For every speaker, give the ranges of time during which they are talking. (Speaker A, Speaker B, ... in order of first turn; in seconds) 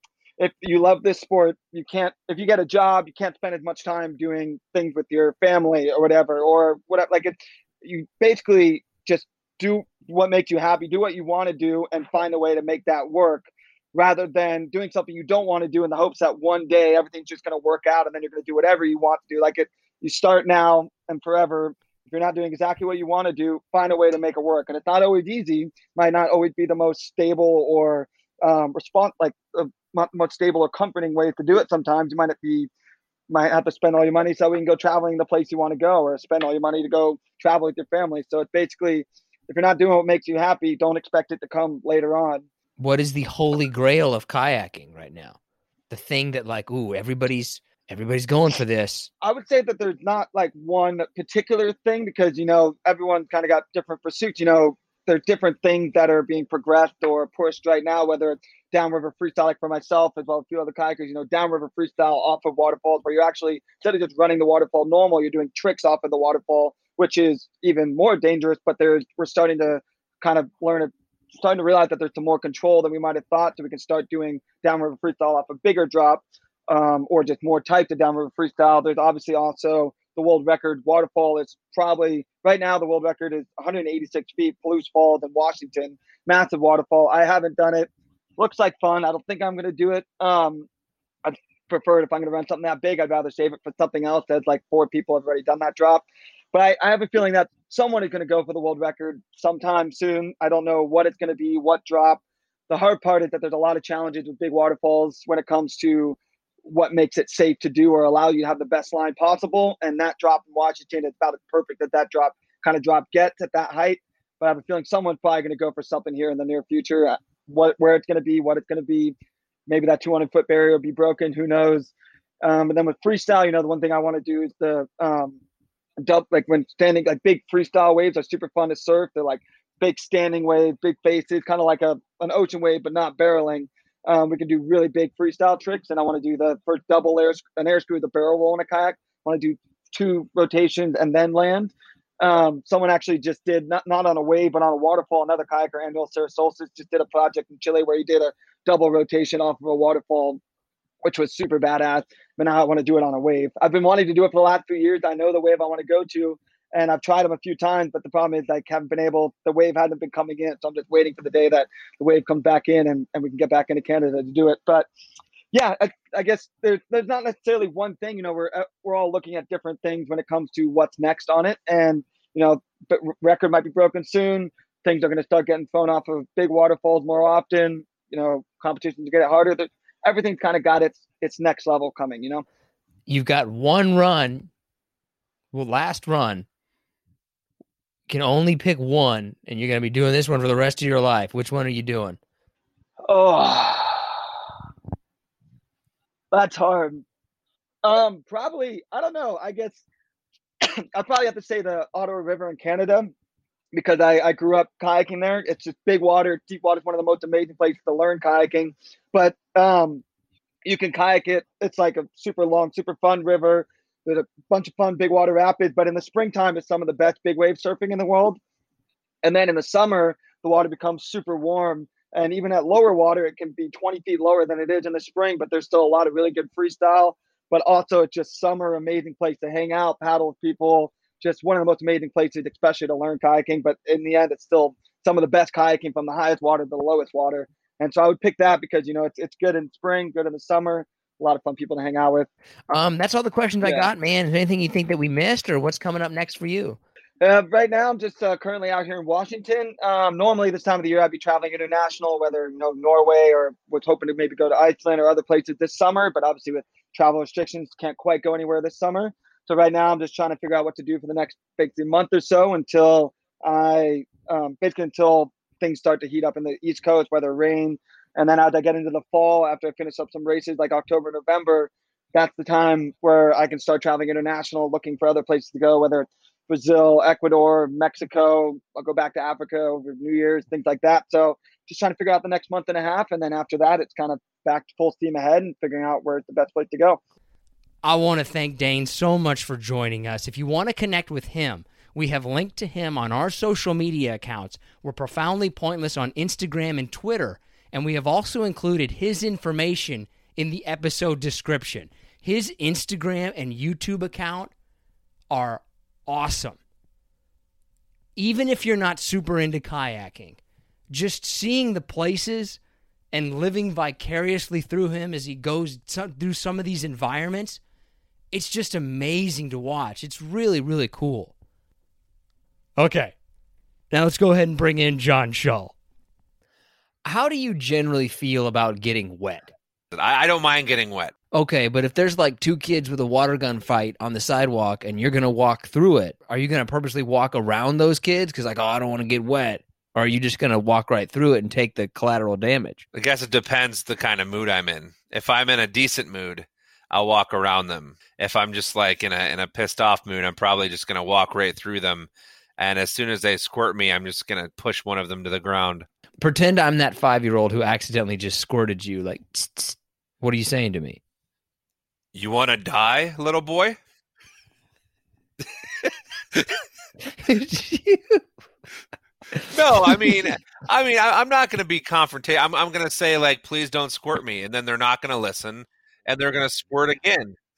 Speaker A: 0.4-32.7, 33.3-42.5, 49.2-90.7, 91.2-119.2, 119.7-125.4, 126.0-150.4, 151.0-164.9, 165.5-182.4, 193.1-194.2, 196.3-197.0, 197.8-199.8, 200.6-203.1, 203.7-210.0, 210.6-218.4, 219.2-242.3, 243.6-243.9, 247.2-287.0
Speaker B: 42.8-45.4, 45.9-49.1, 183.1-184.5, 185.5-186.4, 188.1-192.2, 242.7-246.8, 287.8-304.5, 305.3-306.6, 308.1-310.4, 310.9-312.6, 313.1-317.6, 318.3-321.3, 322.8-323.1, 323.9-325.7, 327.0-329.5, 331.3-342.8, 356.2-361.0, 367.2-368.2, 369.3-370.4
Speaker C: 329.9-331.1, 342.9-355.9, 362.1-363.8, 365.8-366.6, 369.5-377.4